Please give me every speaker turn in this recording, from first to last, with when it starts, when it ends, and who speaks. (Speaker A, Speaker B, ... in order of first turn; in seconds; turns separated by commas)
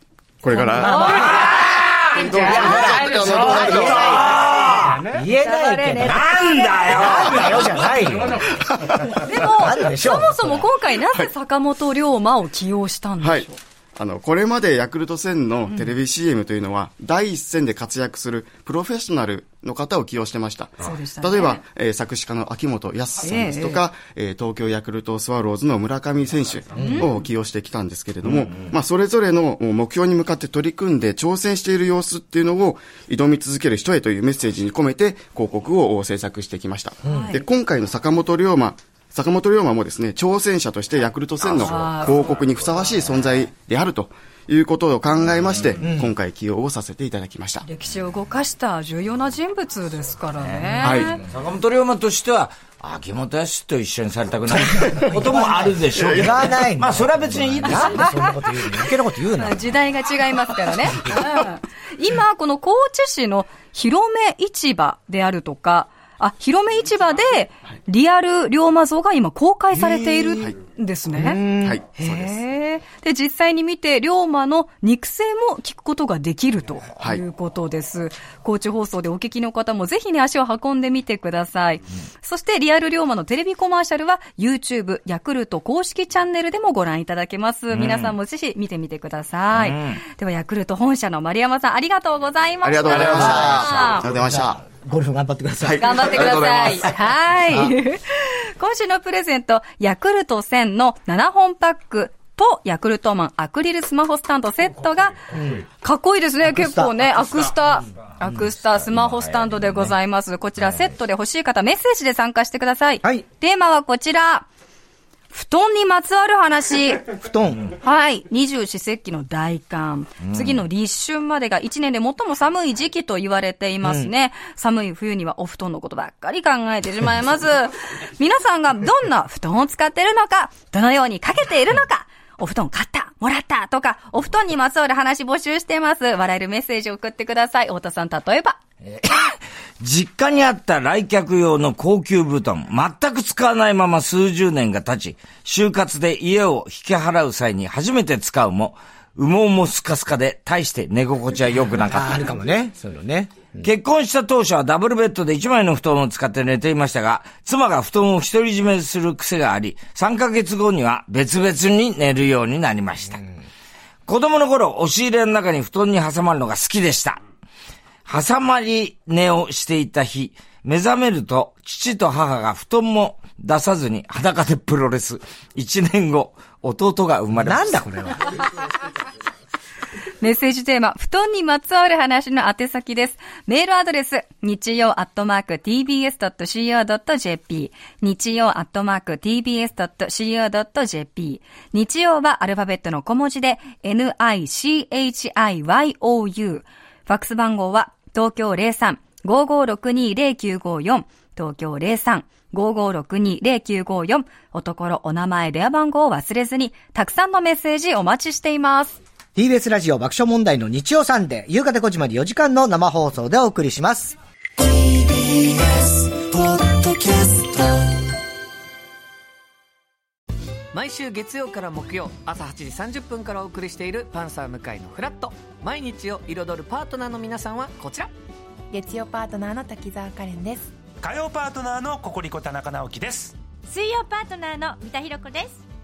Speaker A: 0.4-4.3, Speaker B: 0.5-1.6, Speaker C: 0.7-1.7, Speaker D: 1.3-5.1, Speaker B: 2.1-4.1, Speaker C: 2.3-6.2, Speaker B: 5.4-7.5, Speaker D: 5.9-8.3, Speaker C: 6.9-10.7, Speaker B: 9.1-13.6, Speaker A: 13.2-47.6, Speaker B: 20.8-21.6, Speaker B: 23.2-23.8, Speaker B: 26.7-27.1, Speaker C: 26.8-27.1, Speaker B: 37.0-37.5, Speaker B: 41.5-42.4, Speaker C: 45.8-46.1, Speaker B: 47.6-51.2, Speaker D: 50.4-58.1, Speaker A: 50.8-51.1, Speaker C: 55.0-59.7, Speaker A: 55.0-55.4, Speaker A: 55.9-56.4, Speaker B: 57.7-58.3, Speaker B: 59.4-71.4, Speaker A: 69.7-70.5, Speaker C: 71.1-71.8, Speaker A: 71.6-72.4, Speaker B: 72.0-94.0, Speaker D: 87.7-88.1, Speaker D: 89.5-90.0, Speaker A: 92.6-94.6, Speaker C: 92.9-96.5, Speaker A: 95.6-97.0, Speaker B: 95.8-105.3, Speaker C: 97.5-97.7, Speaker C: 105.3-105.6, Speaker B: 105.8-114.5, Speaker C: 106.5-107.1, Speaker D: 108.8-109.9, Speaker D: 110.6-110.9, Speaker B: 115.3-117.2, Speaker C: 117.1-117.6, Speaker B: 117.7-138.6, Speaker D: 120.2-120.6, Speaker C: 123.8-124.1, Speaker D: 138.8-152.3, Speaker C: 151.8-153.7, Speaker D: 153.6-163.2, Speaker D: 164.1-167.2, Speaker D: 168.1-177.8, Speaker C: 177.3-178.4, Speaker B: 180.2-209.0, Speaker C: 209.3-214.2, Speaker C: 214.9-217.6, Speaker E: 220.7-228.1, Speaker F: 228.7-230.7, Speaker G: 231.0-233.4, Speaker F: 233.7-235.6